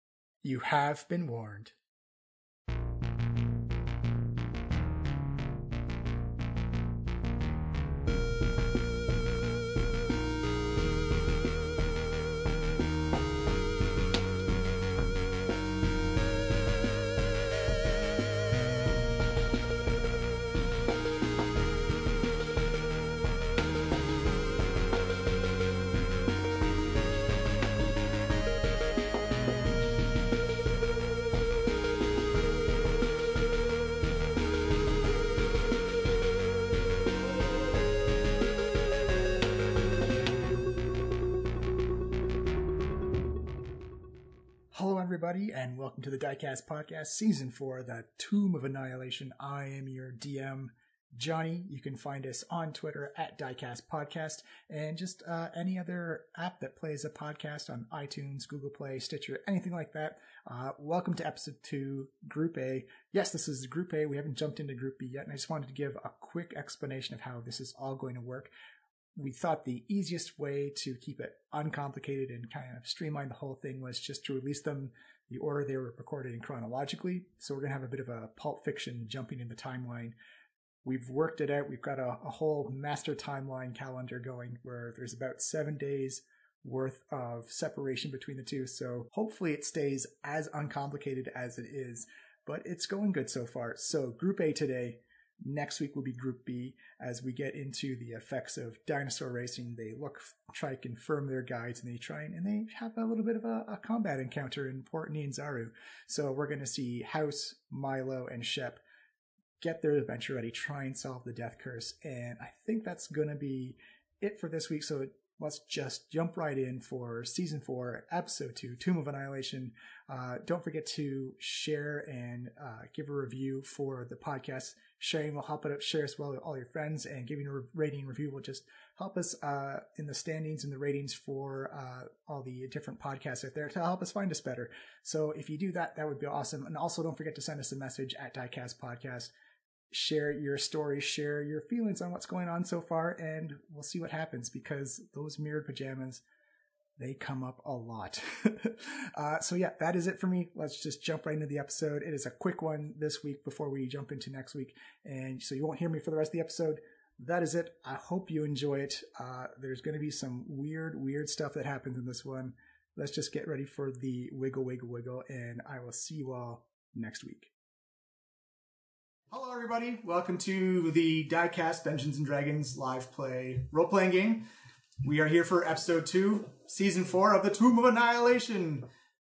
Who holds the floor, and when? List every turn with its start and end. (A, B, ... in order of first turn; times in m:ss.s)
0:00.4-0:01.7 A
0:44.7-1:08.5 A
1:09.2-1:20.2 A
1:20.8-1:48.8 A
1:49.6-2:19.3 A
2:19.9-2:26.2 A
2:27.0-2:47.5 A
2:49.3-2:54.5 A
2:55.0-2:58.9 A